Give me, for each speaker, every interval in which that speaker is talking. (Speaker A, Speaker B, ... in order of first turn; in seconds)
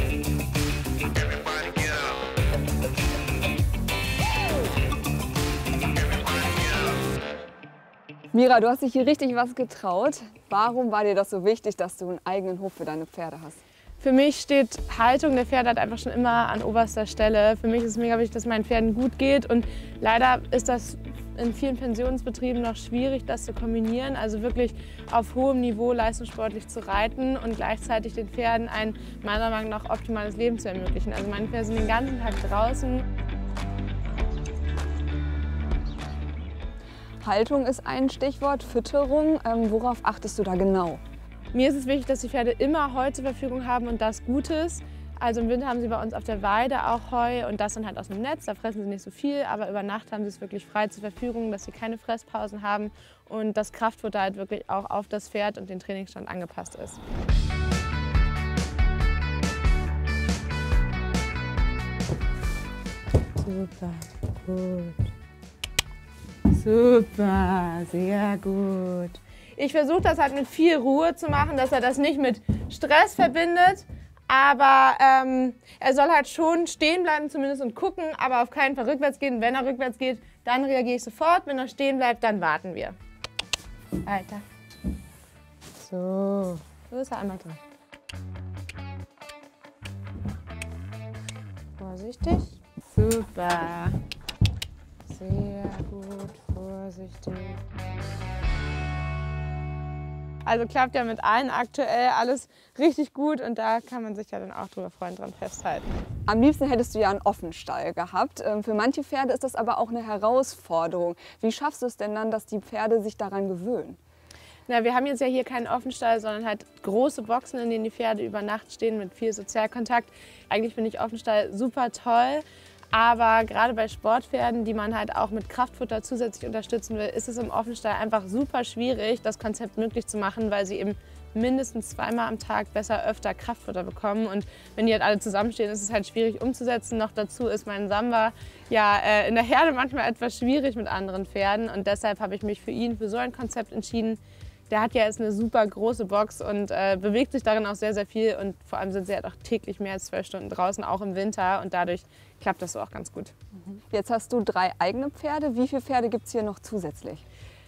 Speaker A: 8.3-13.6, 37.2-41.0, 106.3-114.0, 153.9-157.2
Speaker B: 14.0-33.0, 41.5-57.0, 63.4-65.0, 66.5-83.0, 84.0-84.4, 85.8-87.6, 91.8-94.0, 95.1-97.6, 100.5-105.9, 114.7-153.6